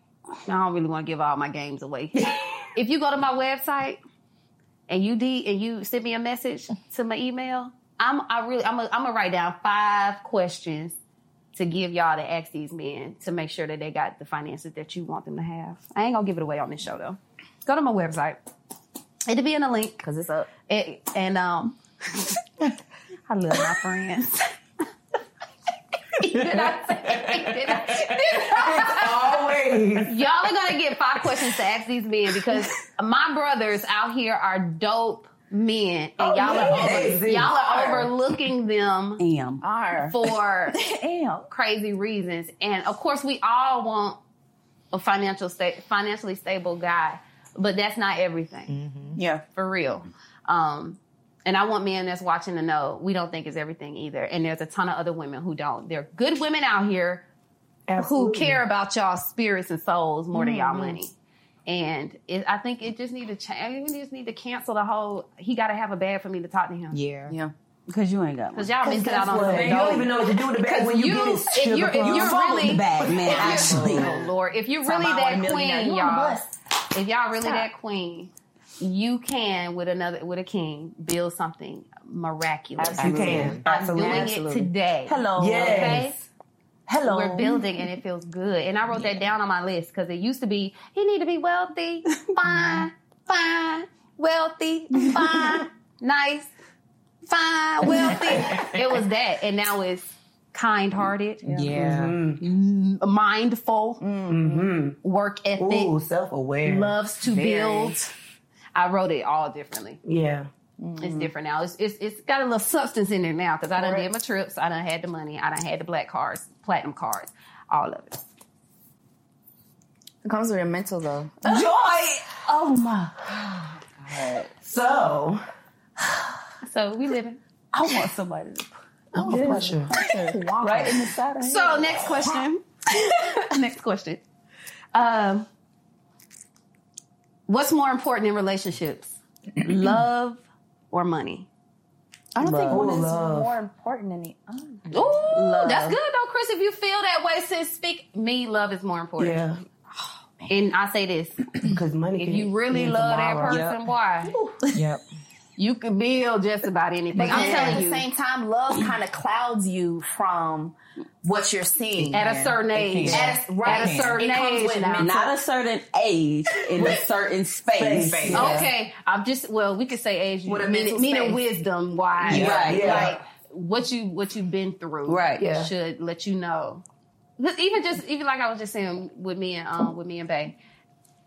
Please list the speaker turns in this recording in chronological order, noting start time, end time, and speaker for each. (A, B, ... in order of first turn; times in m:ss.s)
0:00.4-0:04.0 A
0:04.9-0:11.0 A
0:11.5-0:18.4 A
0:19.2-0:20.1 A
0:20.0-0:20.5 B
0:20.7-0:22.3 A
0:23.3-0:24.5 A
0:26.1-0:29.3 A
0:28.5-0:30.1 C
0:30.0-0:39.2 A
0:36.2-0:38.1 C
0:39.2-0:39.6 D
0:39.6-0:40.2 B
0:40.1-0:40.8 A
0:40.8-0:41.2 B
0:41.0-0:41.4 D
0:41.5-0:44.2 A
0:44.9-0:48.8 A
0:48.7-0:49.2 E
0:49.2-0:49.4 B
0:49.5-0:57.2 A
0:57.9-0:58.6 C
0:58.0-1:01.1 A
1:00.3-1:01.0 B
1:01.6-1:07.0 A
1:06.9-1:07.3 E
1:07.9-1:08.7 D
1:08.5-1:26.2 A
1:08.8-1:13.8 C
1:09.3-1:10.1 D
1:12.0-1:14.1 D
1:12.6-1:14.2 B
1:13.5-1:14.1 E
1:14.8-1:16.6 B
1:22.8-1:24.4 B
1:23.0-1:25.9 D
1:23.0-1:24.3 C
1:23.2-1:23.6 E
1:25.4-1:26.2 C
1:26.9-1:27.6 D
1:27.0-1:36.5 A
1:37.3-1:41.4 A
1:38.3-1:38.6 E
1:41.4-1:41.7 B
1:41.4-1:42.2 E
1:41.7-1:42.4 C
1:42.4-1:44.0 A
1:44.0-1:44.6 B
1:44.3-1:45.0 C
1:45.0-1:45.9 A
1:45.6-1:47.0 C
1:46.6-1:48.0 A
1:47.2-1:48.0 B
1:48.7-1:50.0 A
1:50.0-1:50.5 C
1:50.8-1:51.3 B
1:51.0-1:58.2 A
1:53.8-1:54.1 B
2:00.2-2:01.7 B
2:01.4-2:03.3 D
2:04.0-2:04.5 D
2:04.6-2:05.4 C
2:06.6-2:07.4 A
2:07.7-2:12.1 D
2:09.1-2:09.9 C
2:09.2-2:11.1 B
2:11.4-2:14.2 A
2:14.9-2:15.5 A
2:17.5-2:21.5 A
2:22.3-2:24.9 B
2:22.4-2:22.9 D
2:22.7-2:23.5 C
2:24.9-2:25.2 E
2:24.9-2:29.4 A
2:25.3-2:26.0 D
2:29.2-2:29.6 C
2:30.5-2:31.4 A
2:31.6-2:33.6 C
2:32.2-2:34.3 A
2:33.4-2:33.8 E
2:34.3-2:34.8 B
2:34.7-2:35.0 E
2:35.6-2:38.0 A
2:37.2-2:42.2 B
2:37.2-2:37.8 C
2:42.0-2:44.2 E
2:42.1-2:45.1 A
2:43.0-2:45.3 B
2:45.0-2:48.6 D
2:47.7-2:48.7 C
2:48.0-2:48.6 E
2:48.3-2:56.8 A
2:50.4-2:51.4 B
2:52.3-2:53.0 E
2:52.3-2:53.2 C
2:52.3-2:53.1 D
2:55.0-2:55.5 D
2:57.4-3:00.6 A